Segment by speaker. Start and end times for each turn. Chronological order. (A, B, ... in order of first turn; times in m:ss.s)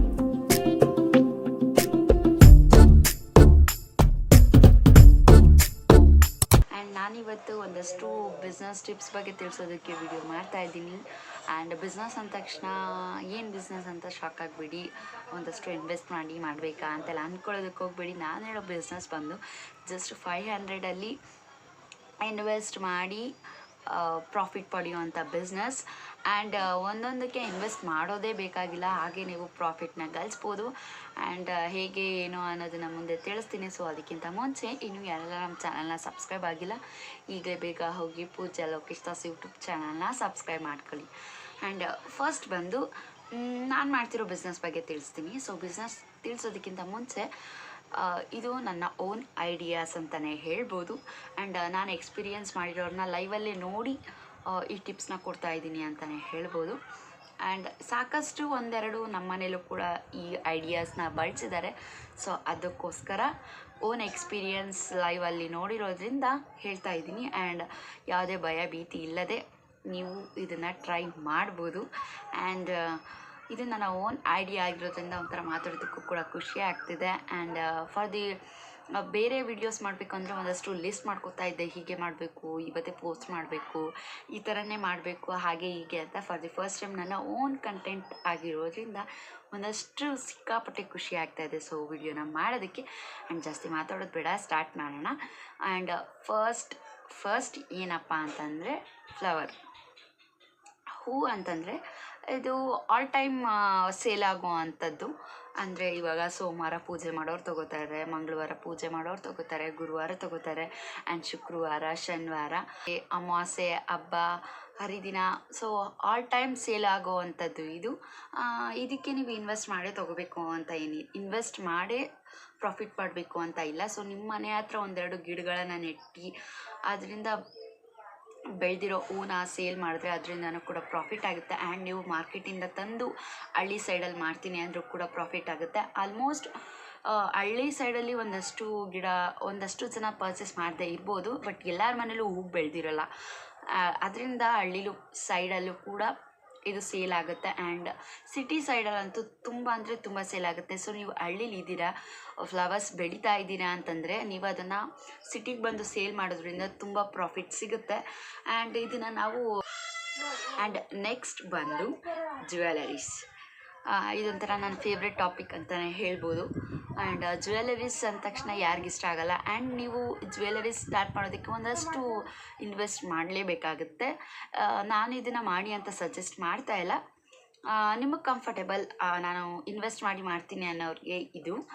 0:06.7-0:21.2 A
0:22.2-0:23.3 A
0:23.9-0:41.1 A
0:41.6-0:47.3 A
0:47.9-0:56.8 A
0:57.4-1:18.4 A
1:18.9-1:39.6 A
1:41.0-2:02.0 A
2:02.6-2:06.4 A
2:06.9-2:07.4 A
2:08.5-2:16.5 A
2:17.0-2:23.1 A
2:23.6-2:26.1 A
2:26.6-2:39.5 A
2:40.0-2:43.2 A
2:43.8-2:57.0 A
2:57.7-3:01.6 A